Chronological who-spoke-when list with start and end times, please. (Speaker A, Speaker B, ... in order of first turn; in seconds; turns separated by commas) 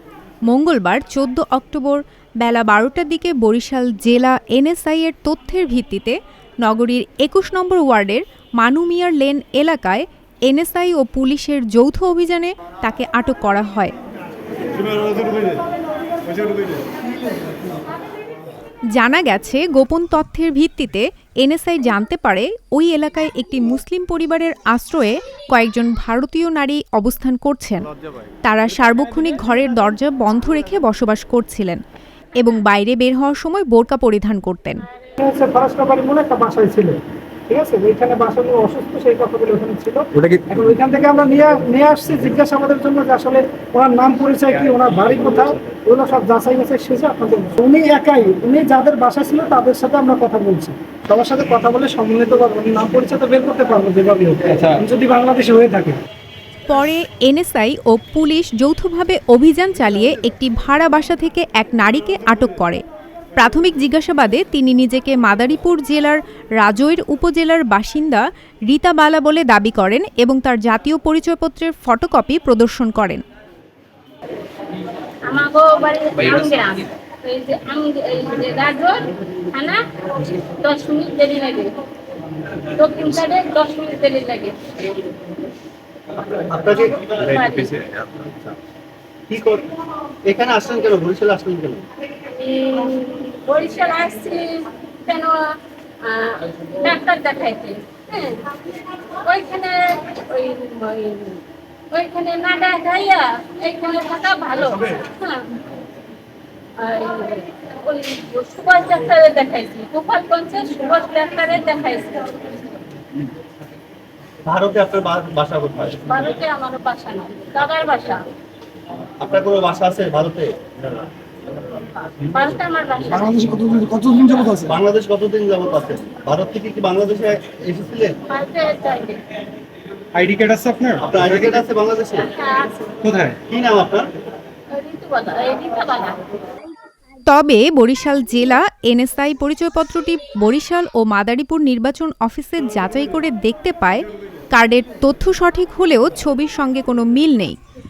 Speaker A: 0.5-13.9, Speaker A: 18.9-27.9, Speaker A: 28.4-31.8, Speaker A: 32.4-34.8, Speaker B: 35.2-56.0, Speaker C: 44.6-45.5, Speaker C: 54.5-54.8, Speaker A: 56.7-62.8, Speaker A: 63.4-73.2, Speaker D: 75.2-81.7, Speaker D: 82.5-84.8, Speaker E: 86.2-87.2, Speaker D: 87.1-87.8, Speaker C: 87.3-88.0, Speaker E: 88.2-88.5, Speaker E: 89.3-89.7, Speaker E: 90.2-91.8, Speaker D: 92.2-105.5, Speaker D: 106.8-112.8, Speaker E: 114.5-116.1, Speaker D: 116.0-118.2, Speaker E: 119.2-121.0, Speaker D: 122.2-123.5, Speaker C: 123.7-124.3, Speaker E: 124.3-128.2, Speaker D: 128.3-129.2, Speaker C: 130.1-131.6, Speaker E: 131.0-132.3, Speaker D: 132.2-133.0, Speaker C: 133.0-133.4, Speaker E: 133.4-134.1, Speaker D: 134.7-136.2, Speaker A: 137.3-147.6